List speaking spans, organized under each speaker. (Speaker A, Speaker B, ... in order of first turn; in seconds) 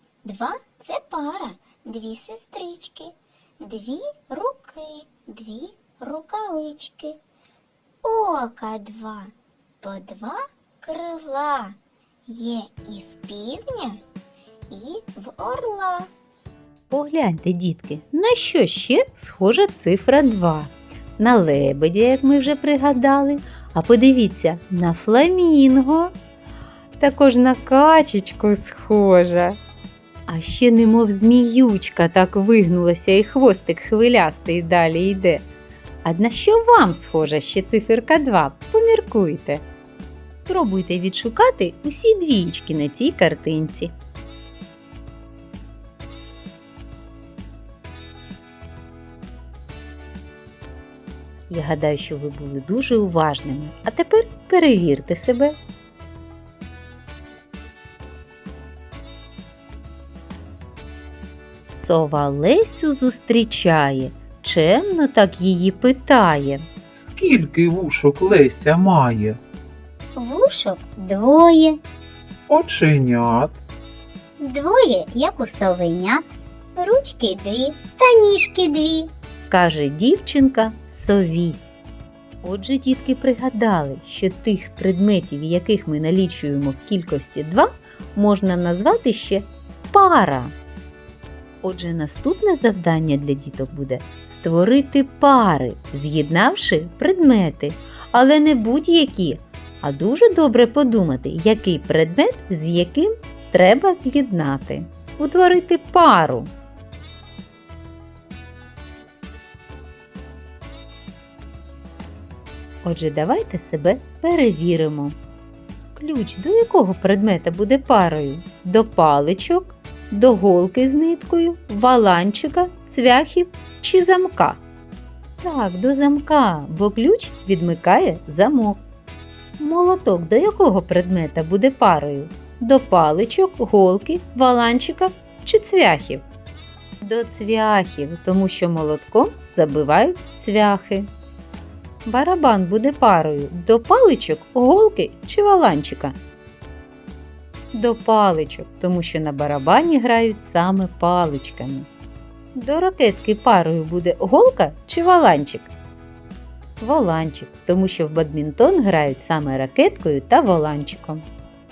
Speaker A: 0.2-7.2, 8.0-14.0, 14.7-16.1, 70.1-71.8, 74.4-76.2, 76.7-79.1
Speaker B: 16.9-26.1, 27.0-29.6, 30.3-35.5, 36.0-39.6, 40.4-43.9, 51.5-55.6, 61.7-66.6, 79.5-81.6, 82.4-90.5, 91.6-106.5, 112.8-115.2, 115.9-124.6, 125.4-128.8, 129.6-136.2, 137.0-141.1, 142.0-146.2, 147.7-151.9, 152.5-155.7, 156.8-161.2
Speaker C: 66.9-69.4, 72.5-73.6